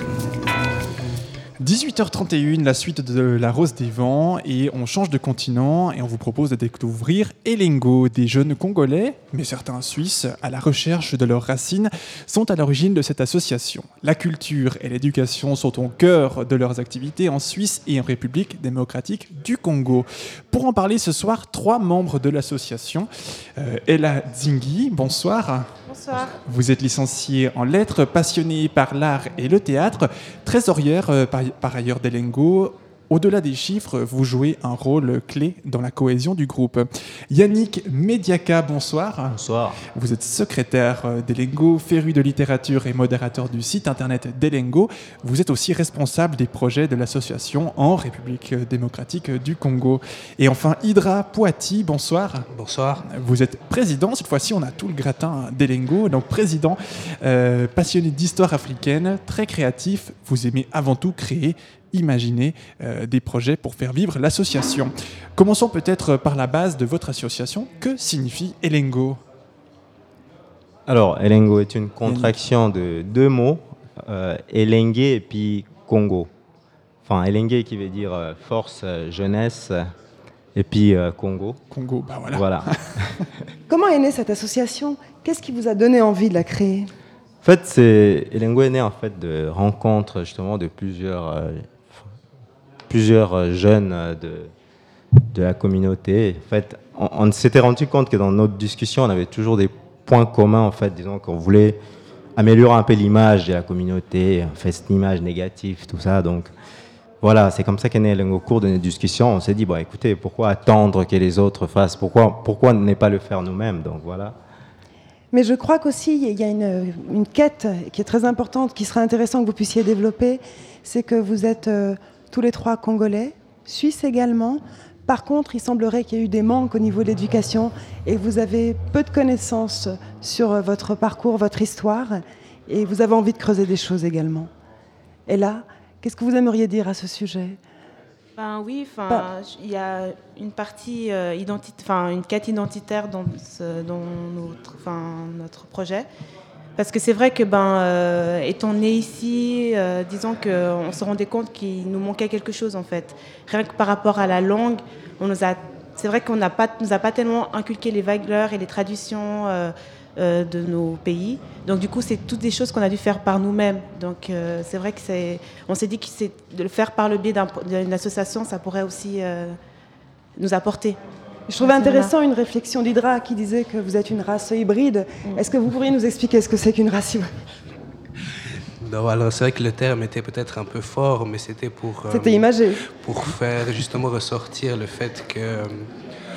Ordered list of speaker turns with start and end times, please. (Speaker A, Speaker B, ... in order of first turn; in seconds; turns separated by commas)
Speaker A: 1.6-39.4, Speaker B: 25.9-26.4, Speaker C: 39.3-39.8, Speaker A: 40.0-52.5, Speaker D: 52.5-53.0, Speaker A: 53.1-69.2, Speaker C: 70.9-76.3, Speaker A: 72.1-72.4, Speaker C: 77.0-79.9, Speaker C: 80.6-81.6, Speaker A: 81.7-82.6, Speaker C: 82.3-82.7, Speaker E: 83.7-86.9, Speaker C: 87.4-92.0, Speaker C: 92.9-94.5, Speaker C: 95.3-101.8, Speaker C: 102.4-106.5, Speaker C: 107.2-114.4, Speaker E: 115.3-134.5, Speaker E: 135.3-137.6, Speaker B: 138.4-146.1, Speaker B: 146.8-169.6, Speaker B: 170.4-171.0, Speaker E: 171.5-177.3, Speaker B: 171.6-172.1, Speaker D: 178.8-182.5, Speaker E: 182.1-182.8, Speaker D: 183.0-185.9